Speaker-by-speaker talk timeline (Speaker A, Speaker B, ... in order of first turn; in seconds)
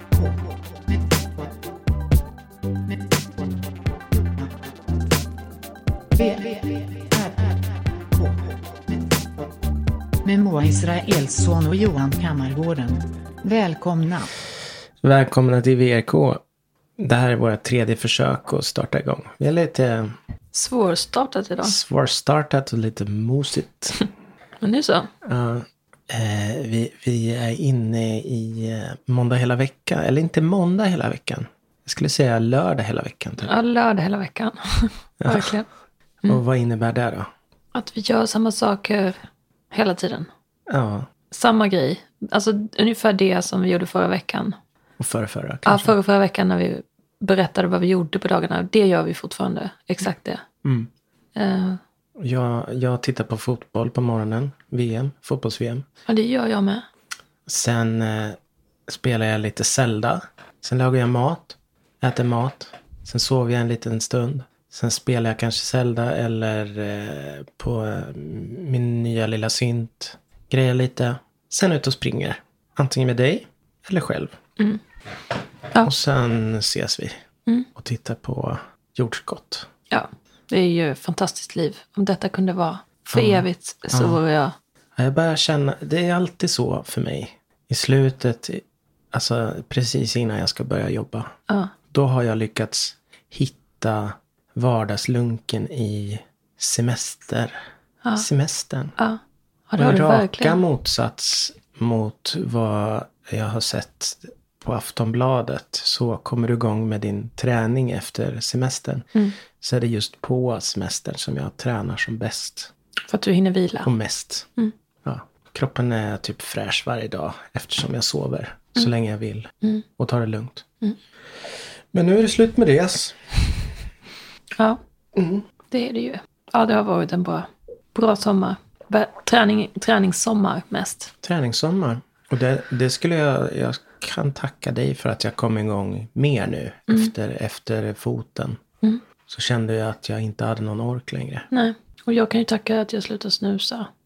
Speaker A: 6.2-7.5, 8.1-8.5, 10.2-14.3
Speaker B: 15.0-16.4, 17.0-20.1, 21.6-24.1, 25.2-33.5, 35.2-35.6, 36.2-37.3, 40.7-41.1, 45.0-46.0, 50.6-50.9, 52.2-55.9, 57.5-74.4, 75.8-77.2, 77.8-79.7, 83.1-84.2, 85.0-91.3, 91.9-97.6, 98.2-99.0, 99.8-112.7, 113.8-114.5, 115.0-120.7, 121.9-123.5, 125.2-125.4, 131.2-138.6, 139.3-141.5
Speaker C: 20.5-21.8, 24.6-25.1, 33.4-35.7, 37.7-40.3, 41.3-44.6, 45.7-50.5, 51.4-51.8, 56.1-56.9, 79.9-84.5, 99.0-100.6, 113.1-113.9, 125.7-131.1, 141.5-143.9